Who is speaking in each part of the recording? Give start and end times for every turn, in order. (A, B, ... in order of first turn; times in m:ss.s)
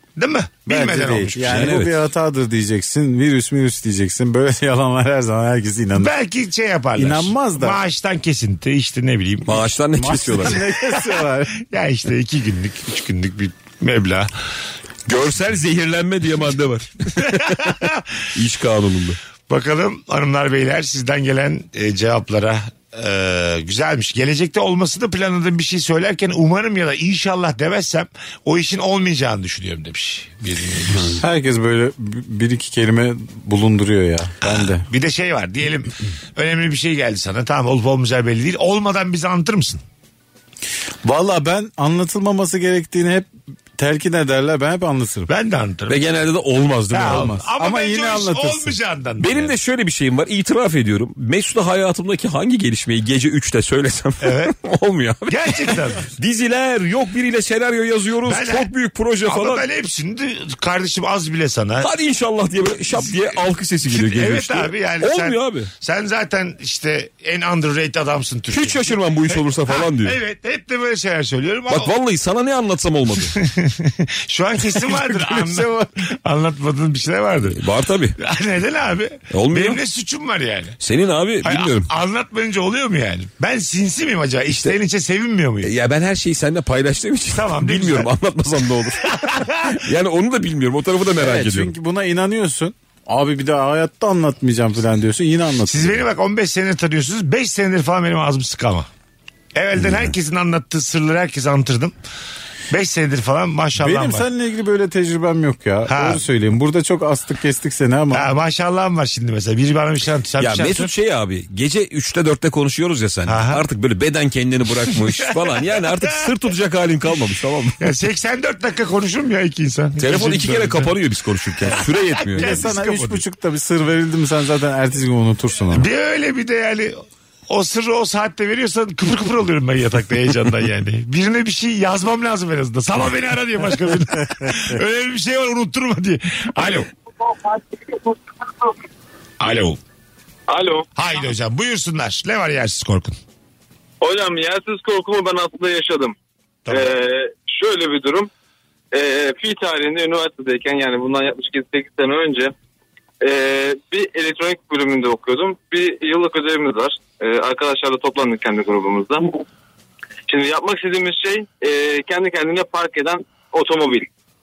0:00.2-0:01.8 A
0:00.7-0:06.1 B
0:01.4-0:02.0 C
0:06.0-0:09.6 A
0:07.0-0:07.8 B
0:09.4-0:10.6 C
0:09.9-0:11.6 B
0:11.6-0:14.3 A
0:15.1-0:17.7 C
0:17.2-0:18.1 A
0:18.3-0:19.2 C
0:19.5-0:31.2 A
0:31.1-0:34.8 B
0:34.4-0:39.8 A
0:41.0-0:45.3 B
0:45.3-0:46.0 A
0:45.9-0:47.4 C
0:46.9-0:49.5 A
0:47.1-0:48.8 B
0:49.2-0:59.7 C
0:54.2-0:54.5 A
0:55.3-0:56.1 A
0:58.2-0:58.7 A
0:59.2-1:01.9 A
1:01.8-1:05.7 C
1:02.9-1:11.9 A
1:08.5-1:10.2 C
1:11.7-1:13.4 C
1:13.3-1:17.6 A
1:14.8-1:15.9 B
1:17.5-1:18.2 C
1:18.2-1:20.8 A
1:19.3-1:19.8 C
1:20.8-1:21.9 C
1:21.4-1:25.7 A
1:25.6-1:31.7 C
1:27.3-1:28.1 A
1:29.0-1:29.8 A
1:31.2-1:36.0 B
1:35.7-1:38.9 A
1:39.5-1:41.9 A
1:42.7-1:44.3 A
1:43.8-1:48.2 B
1:45.9-1:46.2 A
1:48.1-1:50.9 A
1:50.4-1:57.8 C
1:53.3-1:53.6 A
1:54.9-1:55.2 A
1:57.8-2:00.9 A
2:00.0-2:02.6 C
2:01.7-2:03.2 A
2:02.4-2:05.9 B
2:05.7-2:16.9 A
2:17.2-2:18.7 D
2:19.4-2:19.8 A
2:20.5-2:20.9 D
2:21.0-2:23.2 A
2:24.0-2:26.2 D
2:26.7-2:27.0 A
2:26.7-2:28.3 D
2:28.9-2:32.5 D
2:33.2-2:39.4 D
2:40.3-2:44.1 D